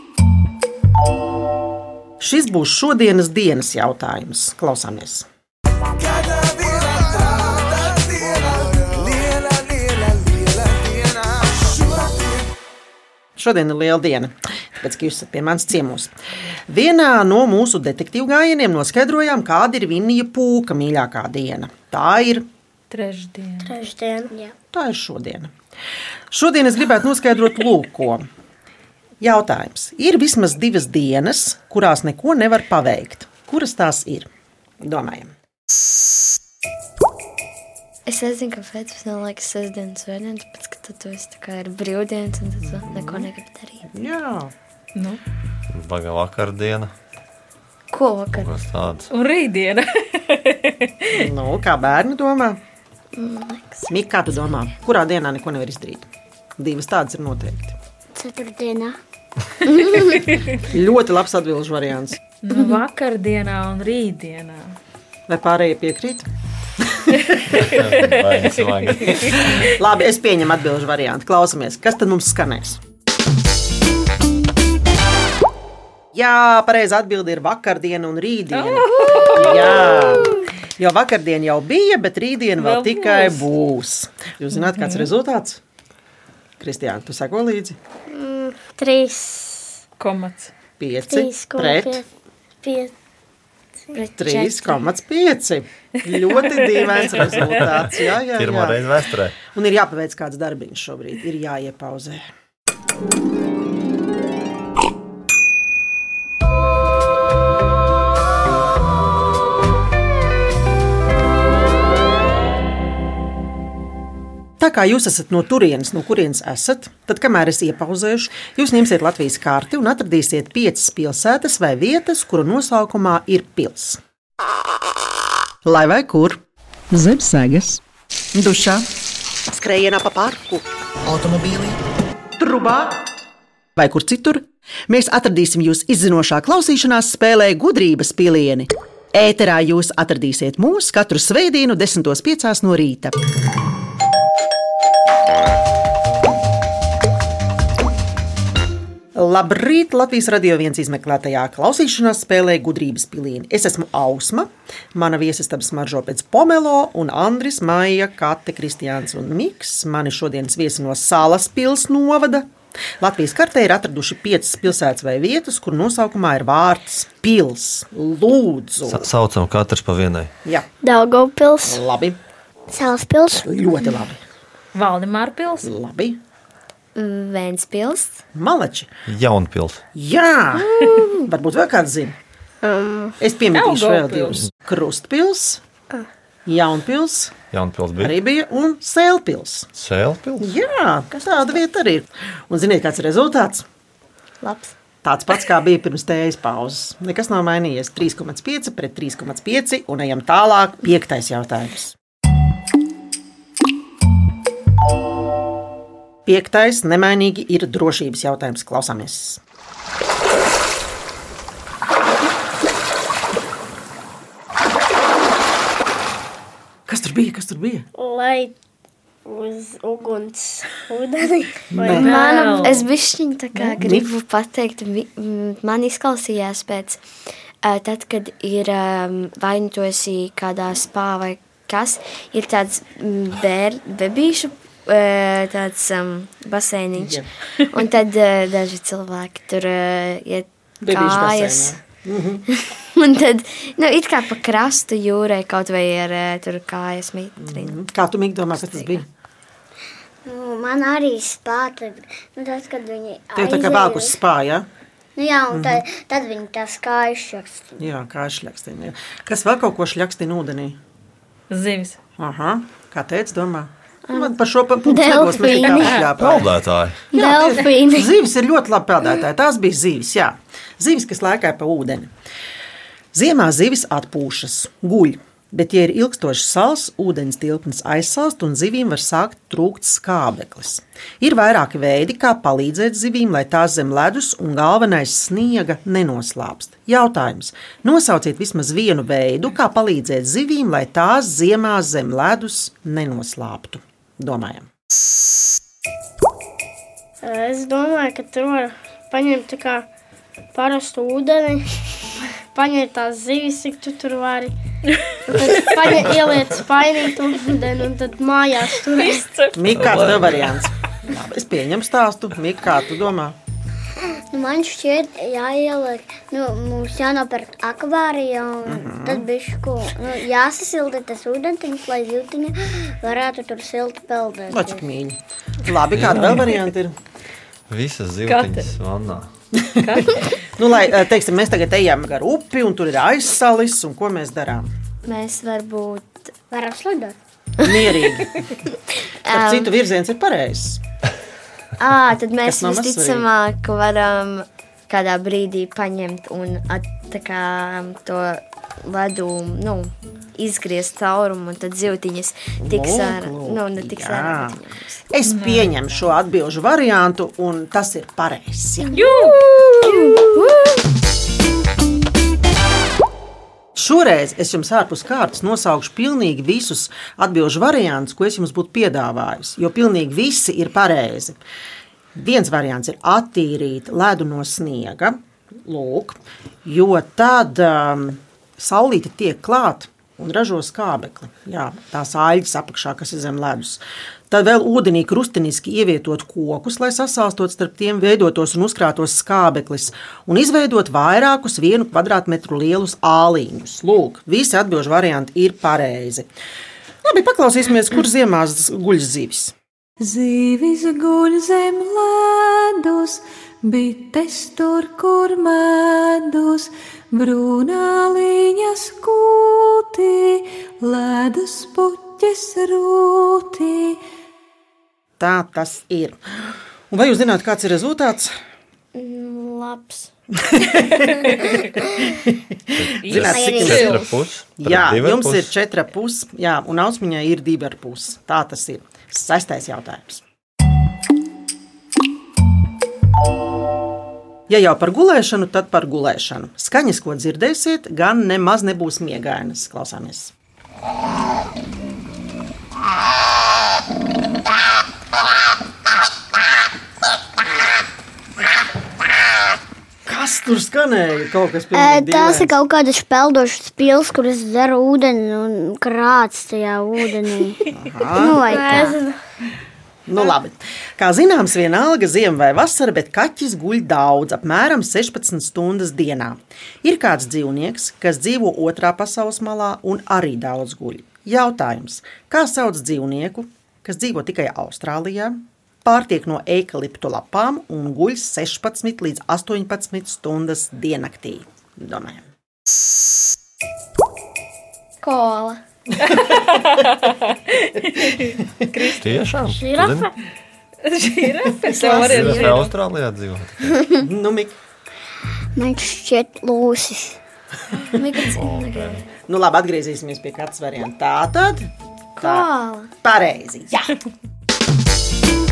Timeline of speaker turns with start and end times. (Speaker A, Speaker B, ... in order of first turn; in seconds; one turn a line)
Speaker A: 2.2-5.3
Speaker A: 13.4-16.1
Speaker A: 16.7-22.5
Speaker B: 22.9-23.8
Speaker C: 23.6-24.3
Speaker A: 24.7-25.5
Speaker A: 26.3-28.2
Speaker A: 29.2-34.3
Speaker A: 34.8-35.3
Speaker D: 38.1-43.9
Speaker A: 42.6-43.3
Speaker A: 43.9-44.5
Speaker B: 45.0-45.2
Speaker E: 45.7-46.9
Speaker D: 47.9-48.5
Speaker E: 48.4-49.1
Speaker B: 49.1-51.2
Speaker A: 51.1-52.6
Speaker D: 53.1-53.9
Speaker A: 53.9-57.8
Speaker F: 58.1-59.0
Speaker A: 60.6-62.2
Speaker B: 62.4-64.8
Speaker A: 65.3-66.3
Speaker A: 66.8-67.4
Speaker E: 67.6-69.7
Speaker B: 68.5-69.5
Speaker A: 69.7-72.8
Speaker A: 76.1-85.6
Speaker B: 78.5-80.3
Speaker C: 79.5-80.2
Speaker B: 82.6-83.5
Speaker B: 84.7-85.1
Speaker A: 86.6-87.8
Speaker C: 88.1-89.8
Speaker B: 90.0-90.5
Speaker A: 90.8-92.0
Speaker C: 91.1-92.1
Speaker C: 92.6-92.9
Speaker D: 93.9-94.8
Speaker A: 94.2-98.9
Speaker B: 96.4-97.1
Speaker E: 98.3-99.4
Speaker A: 99.5-102.2
Speaker A: 114.6-124.0
Speaker A: 125.7-127.8
Speaker A: 128.3-128.9
Speaker A: 129.5-131.8
Speaker A: 132.4-133.1
Speaker A: 133.8-143.2
Speaker A: 149.2-169.1
Speaker E: 168.8-170.3
Speaker C: 170.8-171.8
Speaker A: 171.7-172.2
Speaker F: 172.7-173.5
Speaker A: 173.4-174.2
Speaker B: 174.7-175.7
Speaker A: 175.6-176.2
Speaker D: 176.9-178.2
Speaker A: 178.3-178.9
Speaker E: 179.1-179.8
Speaker A: 179.9-182.2
Speaker D: 180.6-181.3
Speaker C: 182.6-183.2
Speaker A: 183.2-185.6
Speaker B: 183.5-184.4
Speaker A: 186.5-187.4
Speaker E: 187.5-188.1
Speaker A: 188.0-189.7
Speaker E: 189.8-190.5
Speaker A: 190.4-193.7
Speaker D: 194.4-194.7
Speaker A: 195.0-201.9
Speaker A: 206.2-209.4
Speaker A: 216.9-217.9
Speaker C: 217.9-218.6
Speaker C: 219.2-222.8
Speaker A: 221.7-222.1
Speaker B: 221.9-222.8
Speaker D: 221.9-227.0
Speaker B: 223.5-223.8
Speaker A: 223.8-224.1
Speaker D: 227.6-241.8
Speaker A: 237.0-237.3
Speaker A: 240.8-242.4
Speaker D: 242.5-247.8
Speaker A: 247.4-249.1
Speaker D: 248.7-249.0
Speaker F: 250.3-254.2
Speaker A: 253.3-254.7
Speaker F: 255.2-257.8
Speaker A: 255.5-255.8
Speaker A: 257.8-260.8
Speaker B: 261.5-262.0
Speaker A: 262.2-266.5
Speaker F: 265.1-266.0
Speaker C: 265.4-265.7
Speaker E: 266.1-267.1
Speaker A: 267.1-272.1
Speaker F: 267.1-268.0
Speaker A: 273.1-294.7
Speaker C: 297.2-299.9
Speaker C: 300.5-301.7
Speaker C: 302.5-304.5
Speaker C: 305.3-309.3
Speaker B: 308.9-309.8
Speaker A: 309.6-313.4
Speaker E: 309.7-310.6
Speaker F: 314.3-324.8
Speaker A: 318.7-319.2
Speaker A: 324.5-326.9
Speaker E: 325.9-326.6
Speaker E: 327.7-329.3
Speaker B: 328.3-328.7
Speaker A: 329.6-330.1
Speaker B: 329.8-330.3
Speaker A: 330.6-334.7
Speaker D: 335.0-336.3
Speaker F: 336.5-337.2
Speaker A: 337.6-338.5
Speaker D: 339.0-339.7
Speaker A: 339.3-340.8
Speaker D: 341.8-355.0
Speaker A: 342.4-343.3
Speaker A: 352.6-359.1
Speaker B: 355.2-355.7
Speaker D: 358.9-359.1
Speaker B: 358.9-359.4
Speaker D: 359.8-360.6
Speaker A: 359.9-360.2
Speaker A: 363.8-371.4
Speaker A: 372.1-396.3
Speaker A: 397.0-399.5
Speaker G: 400.0-414.0
Speaker A: 415.2-418.3
Speaker D: 418.9-420.1
Speaker A: 420.4-424.0
Speaker E: 422.8-425.5
Speaker B: 423.0-424.1
Speaker F: 423.2-424.0
Speaker A: 424.6-430.2
Speaker A: 434.5-440.3
Speaker A: 450.1-452.5
Speaker F: 451.7-459.0
Speaker A: 457.7-458.4
Speaker C: 458.4-459.2
Speaker A: 460.1-482.3
Speaker D: 485.0-485.6
Speaker A: 486.0-486.3
Speaker B: 486.2-489.4
Speaker E: 489.0-490.1
Speaker C: 489.5-490.1
Speaker B: 490.8-492.7
Speaker A: 491.7-492.6
Speaker E: 491.9-493.8
Speaker A: 494.0-494.6
Speaker F: 495.6-497.2
Speaker D: 497.9-499.1
Speaker E: 498.3-499.1
Speaker A: 499.2-502.5
Speaker D: 502.2-502.9
Speaker A: 503.0-503.9